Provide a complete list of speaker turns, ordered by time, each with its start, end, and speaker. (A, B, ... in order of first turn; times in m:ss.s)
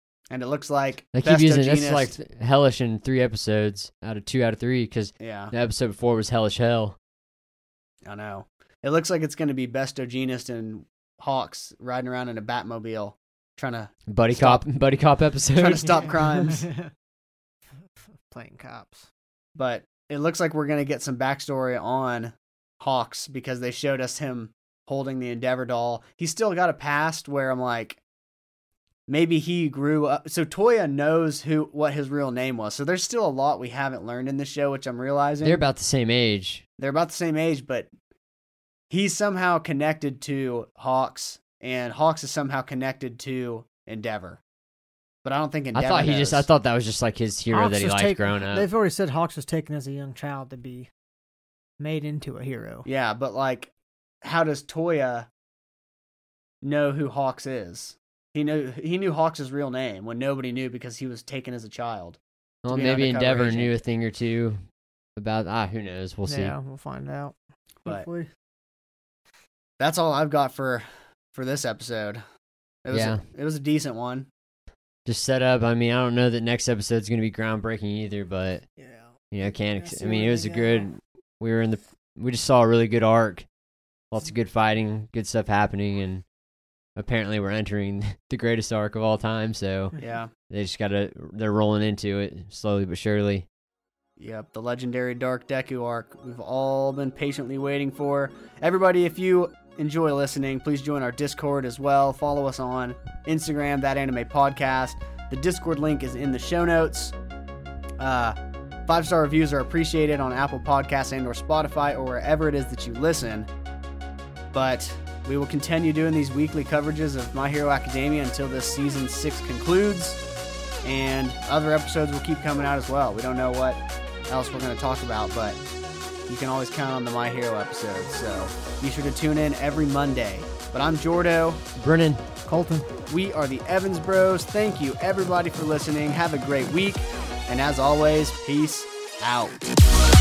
0:00.3-0:02.2 A
0:01.1-0:07.0 B
0:05.2-0:05.5 A
0:08.1-0:14.6 A
0:14.1-0:16.0 B
0:15.6-0:16.7 A
0:16.0-0:16.9 C
0:18.2-0:19.1 C
0:19.6-0:28.0 A
0:29.1-0:35.6 A
0:35.4-0:36.6 B
0:36.8-0:37.9 A
0:38.9-0:44.4 A
0:45.2-0:46.5 A
0:45.7-0:48.7 B
0:47.5-0:50.9 C
0:51.8-0:52.8 C
0:52.8-0:53.7 A
0:54.2-0:55.3 A
0:56.6-1:03.7 A
1:02.6-1:04.6 B
1:05.2-1:06.6 B
1:06.3-1:07.4 C
1:07.9-1:08.3 C
1:09.8-1:12.2 A
1:12.8-1:14.3 A
1:12.9-1:13.2 B
1:15.0-1:18.6 B
1:18.8-1:20.9 C
1:19.3-1:23.5 B
1:24.1-1:26.2 B
1:27.0-1:30.0 B
1:30.0-1:30.3 A
1:30.5-1:33.5 B
1:34.2-1:47.1 A
1:48.0-1:53.5 A
1:54.5-2:00.2 A
2:00.8-2:05.6 A
2:06.3-2:11.6 A
2:11.8-2:12.2 B
2:12.5-2:12.9 C
2:13.1-2:19.6 A